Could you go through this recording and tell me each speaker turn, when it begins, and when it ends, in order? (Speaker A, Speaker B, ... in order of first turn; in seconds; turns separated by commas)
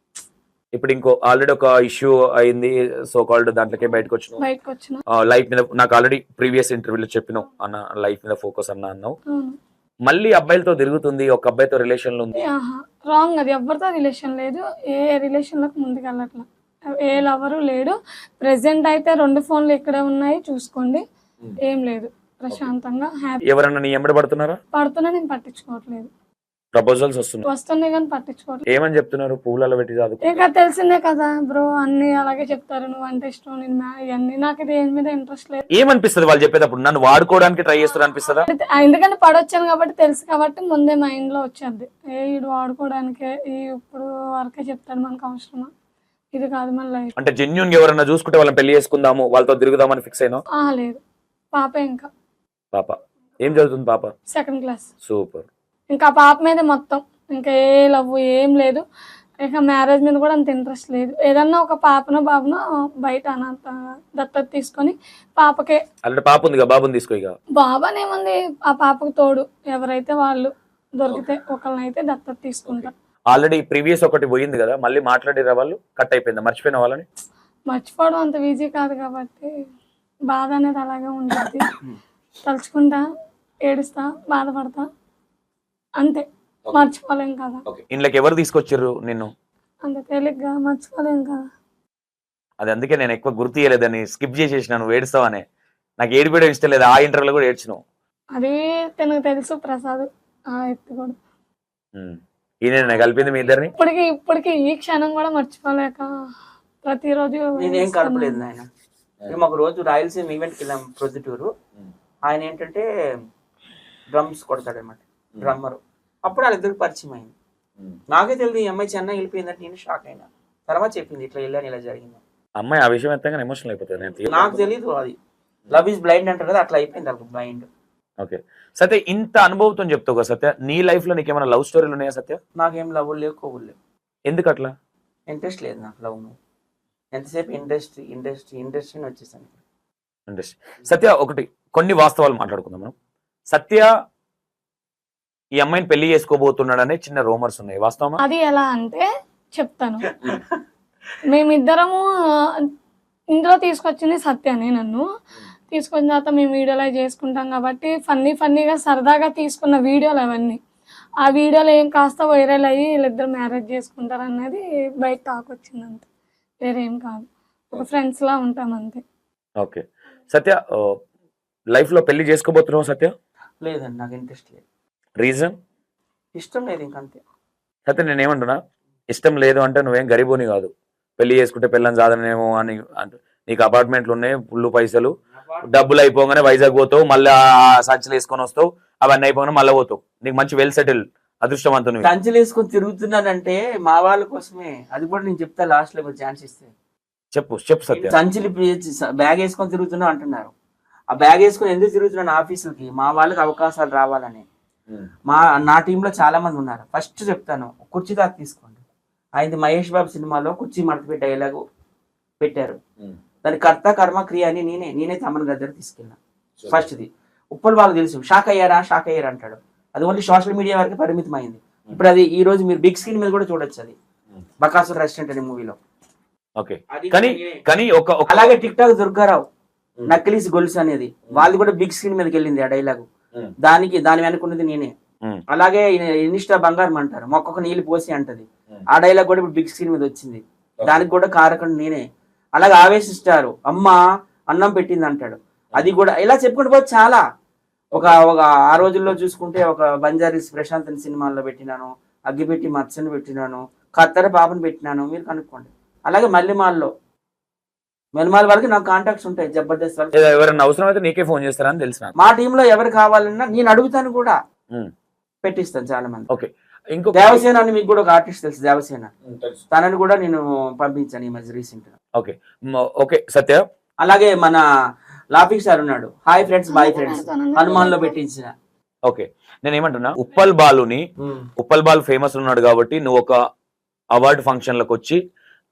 Speaker A: 0.8-4.4, Speaker B: 4.4-5.0, Speaker A: 5.1-9.2, Speaker B: 9.3-9.6, Speaker A: 10.1-12.5, Speaker B: 12.4-16.5, Speaker B: 17.0-21.0, Speaker B: 21.6-23.4, Speaker A: 23.5-24.6, Speaker B: 24.7-26.1, Speaker A: 26.7-27.4, Speaker B: 27.5-28.6, Speaker A: 28.7-30.4, Speaker B: 30.2-35.7, Speaker A: 35.7-38.5, Speaker B: 38.5-45.7, Speaker B: 46.3-47.1, Speaker A: 47.2-50.4, Speaker B: 50.6-51.0, Speaker B: 51.5-52.1, Speaker A: 52.7-54.1, Speaker B: 54.3-54.9, Speaker A: 55.1-55.5, Speaker B: 55.9-58.9, Speaker B: 59.4-65.8, Speaker A: 66.0-67.4, Speaker B: 67.6-72.9, Speaker A: 72.7-77.1, Speaker B: 77.7-79.5, Speaker B: 80.3-81.7, Speaker B: 82.5-83.0, Speaker B: 83.7-84.9, Speaker B: 86.0-87.6, Speaker A: 87.7-89.3, Speaker B: 89.8-91.4, Speaker A: 92.6-95.4, Speaker A: 96.0-97.8, Speaker B: 98.4-101.2, Speaker A: 102.0-103.7, Speaker B: 103.7-106.1, Speaker B: 106.8-108.4, Speaker C: 107.6-108.7, Speaker C: 109.3-111.5, Speaker C: 112.3-112.9, Speaker C: 114.1-117.3, Speaker C: 118.1-122.2, Speaker A: 122.6-124.6, Speaker C: 124.3-125.2, Speaker C: 125.7-127.7, Speaker A: 128.2-132.4, Speaker C: 132.6-133.8, Speaker A: 134.3-134.7, Speaker C: 135.3-136.3, Speaker C: 137.1-139.6, Speaker A: 140.3-142.9, Speaker A: 143.5-143.9, Speaker A: 145.6-148.2, Speaker B: 148.2-149.1, Speaker B: 149.6-150.1, Speaker B: 151.3-152.7, Speaker B: 153.3-155.0, Speaker B: 155.7-160.6, Speaker B: 161.2-166.1, Speaker B: 166.6-169.0, Speaker A: 169.6-170.9, Speaker A: 171.7-173.1, Speaker C: 173.6-174.6, Speaker A: 175.2-175.5, Speaker C: 176.3-177.2, Speaker A: 177.9-178.6, Speaker A: 179.1-185.1, Speaker A: 185.6-192.1, Speaker C: 192.0-196.7, Speaker A: 197.3-198.2, Speaker C: 197.9-200.5, Speaker C: 201.1-204.5, Speaker C: 205.3-208.8, Speaker C: 209.4-211.6, Speaker C: 212.4-212.8, Speaker C: 213.4-216.2, Speaker A: 216.6-216.9, Speaker C: 216.7-223.9, Speaker C: 224.6-225.8, Speaker A: 226.6-228.5, Speaker C: 226.9-227.6, Speaker C: 228.3-229.4, Speaker C: 230.1-233.1, Speaker C: 233.6-234.9, Speaker C: 235.5-242.0, Speaker C: 242.6-244.0, Speaker C: 244.5-247.2, Speaker C: 247.9-256.9, Speaker C: 258.1-260.2, Speaker A: 260.1-262.2, Speaker C: 262.2-264.4, Speaker C: 265.4-266.3, Speaker A: 266.3-267.4, Speaker C: 267.1-269.1, Speaker A: 269.3-269.6, Speaker C: 269.7-271.9, Speaker A: 272.2-273.6, Speaker C: 274.0-274.6, Speaker C: 275.3-278.5, Speaker B: 276.7-278.2, Speaker A: 279.1-281.0, Speaker C: 281.2-281.5, Speaker A: 281.6-283.4, Speaker A: 284.2-285.2